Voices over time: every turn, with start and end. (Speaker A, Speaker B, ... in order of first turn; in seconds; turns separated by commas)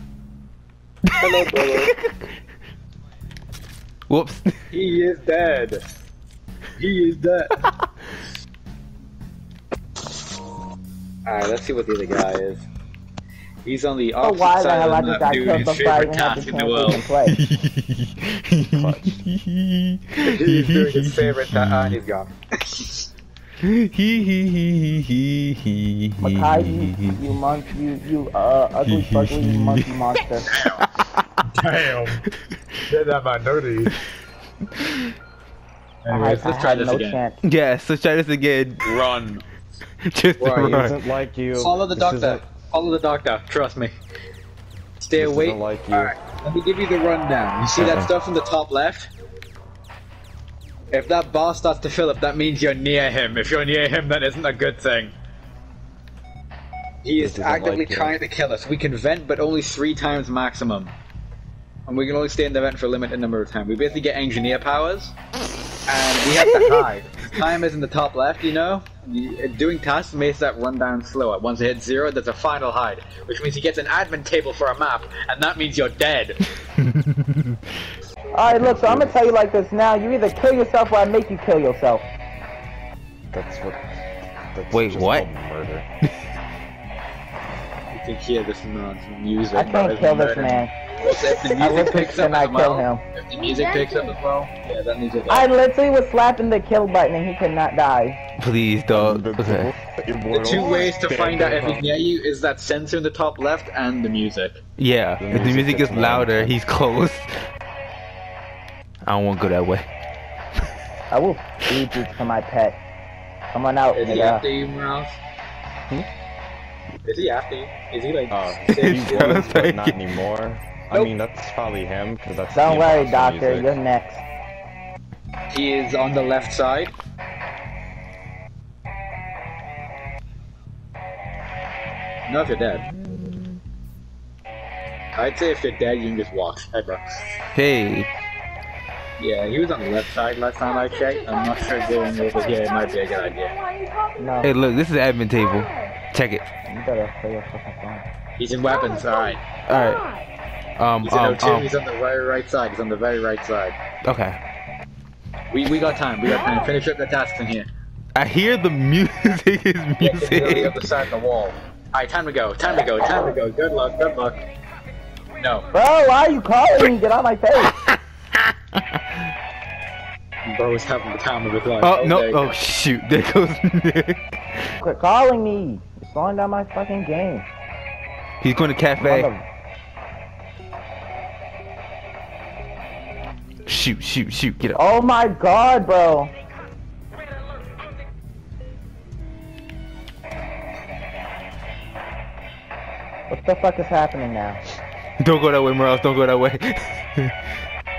Speaker A: 1.1-2.2, Speaker B: 1.1-1.9, Speaker A: 4.1-4.6, Speaker B: 4.7-5.8, Speaker B: 6.8-7.7, Speaker B: 11.3-12.7, Speaker B: 13.7-17.1, Speaker C: 14.2-17.4, Speaker A: 17.2-22.0, Speaker D: 18.7-19.2, Speaker B: 20.2-23.1, Speaker A: 23.6-27.2, Speaker C: 26.2-30.5, Speaker A: 28.9-30.0, Speaker B: 30.5-30.9, Speaker A: 30.5-31.2, Speaker B: 31.4-32.2, Speaker B: 32.9-34.0, Speaker A: 34.8-35.1, Speaker B: 36.0-37.2, Speaker C: 36.1-37.4, Speaker A: 37.4-38.9, Speaker B: 38.8-39.4, Speaker A: 40.1-41.0, Speaker B: 40.4-40.9, Speaker D: 40.6-42.4, Speaker B: 41.6-43.9, Speaker B: 45.0-49.1, Speaker D: 45.2-46.1, Speaker D: 47.8-48.1, Speaker B: 50.9-55.1, Speaker B: 57.0-61.0, Speaker D: 57.2-58.2, Speaker B: 61.9-65.1, Speaker B: 65.9-76.4, Speaker A: 76.8-77.6, Speaker C: 78.3-82.1, Speaker D: 78.4-79.3, Speaker D: 83.3-84.0, Speaker D: 84.5-85.9, Speaker A: 84.7-85.3, Speaker B: 87.9-95.5, Speaker C: 89.5-93.0, Speaker C: 95.3-98.2, Speaker A: 98.4-99.7, Speaker D: 98.9-101.9, Speaker B: 100.3-104.6, Speaker A: 104.8-107.5, Speaker D: 105.2-106.6, Speaker A: 109.0-109.9, Speaker C: 111.1-112.8, Speaker C: 113.5-114.5, Speaker B: 113.9-115.2, Speaker B: 117.0-119.5, Speaker D: 118.3-123.8, Speaker A: 118.7-120.0, Speaker C: 122.5-124.2, Speaker B: 125.5-127.0, Speaker B: 132.3-132.9, Speaker D: 133.0-133.6, Speaker B: 135.2-137.2, Speaker A: 137.6-138.1, Speaker B: 139.2-143.6, Speaker C: 144.2-144.5, Speaker A: 144.4-146.5, Speaker C: 146.7-148.1, Speaker B: 148.4-149.6, Speaker A: 149.7-150.1, Speaker A: 150.8-151.7, Speaker B: 151.0-153.8, Speaker A: 154.1-154.4, Speaker B: 155.5-157.7, Speaker A: 158.2-160.8, Speaker B: 160.0-164.4, Speaker B: 165.4-165.7, Speaker C: 165.7-167.8, Speaker A: 167.9-168.8, Speaker B: 170.5-172.5, Speaker A: 171.8-174.7, Speaker C: 174.8-177.5, Speaker A: 178.4-179.3, Speaker C: 179.0-179.4, Speaker A: 183.7-184.8, Speaker C: 184.8-186.3, Speaker C: 193.3-194.6, Speaker A: 195.2-197.3